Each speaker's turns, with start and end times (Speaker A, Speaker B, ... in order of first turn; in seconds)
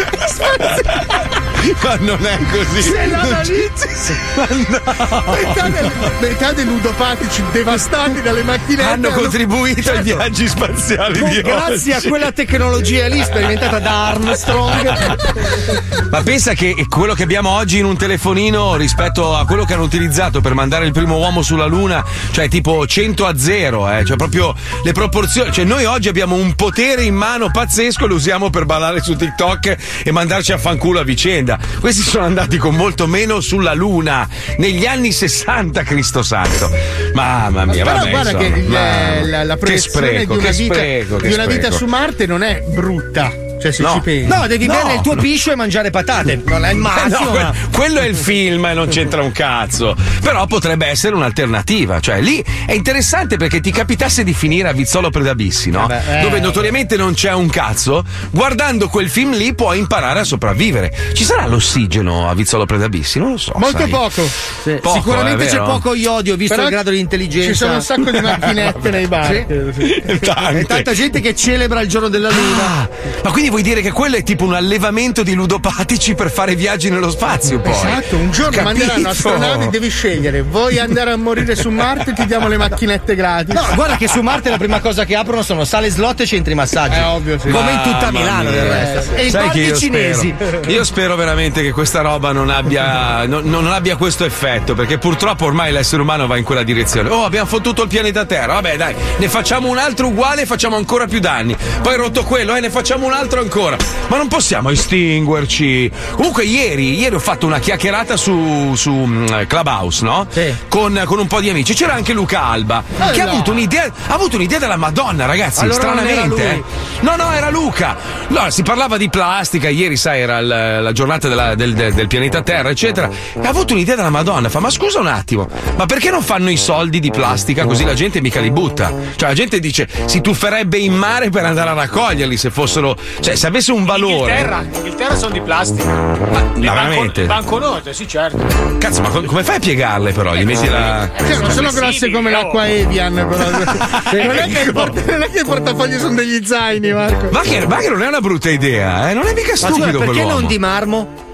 Speaker A: 0.2-3.5, 4.3-5.7, 8.8-12.3, 14.7-15.1, 16.1-41.8, 43.8-44.0, 44.6-45.2, 46.8-64.0, 64.8-65.8, 69.1-70.9, 72.3-79.7, 87.5-134.5, 136.6-137.4, 138.8-141.2, 143.9-144.9, 147.3-150.6
Speaker B: 2.8-4.0, 5.3-9.4, 37.7-44.5, 56.1-56.6, 63.6-64.3, 66.5-66.8, 67.4-69.8, 77.7-83.7, 86.9-87.6, 88.6-90.4, 113.0-113.6, 141.2-147.3
Speaker C: 9.9-10.2, 11.1-15.2, 44.2-47.6, 55.8-56.1, 64.6-67.9, 70.4-72.8, 83.5-90.4, 110.3-110.6, 115.5-116.6, 144.1-144.6, 149.6-151.1
Speaker D: 133.9-138.5, 140.5-142.7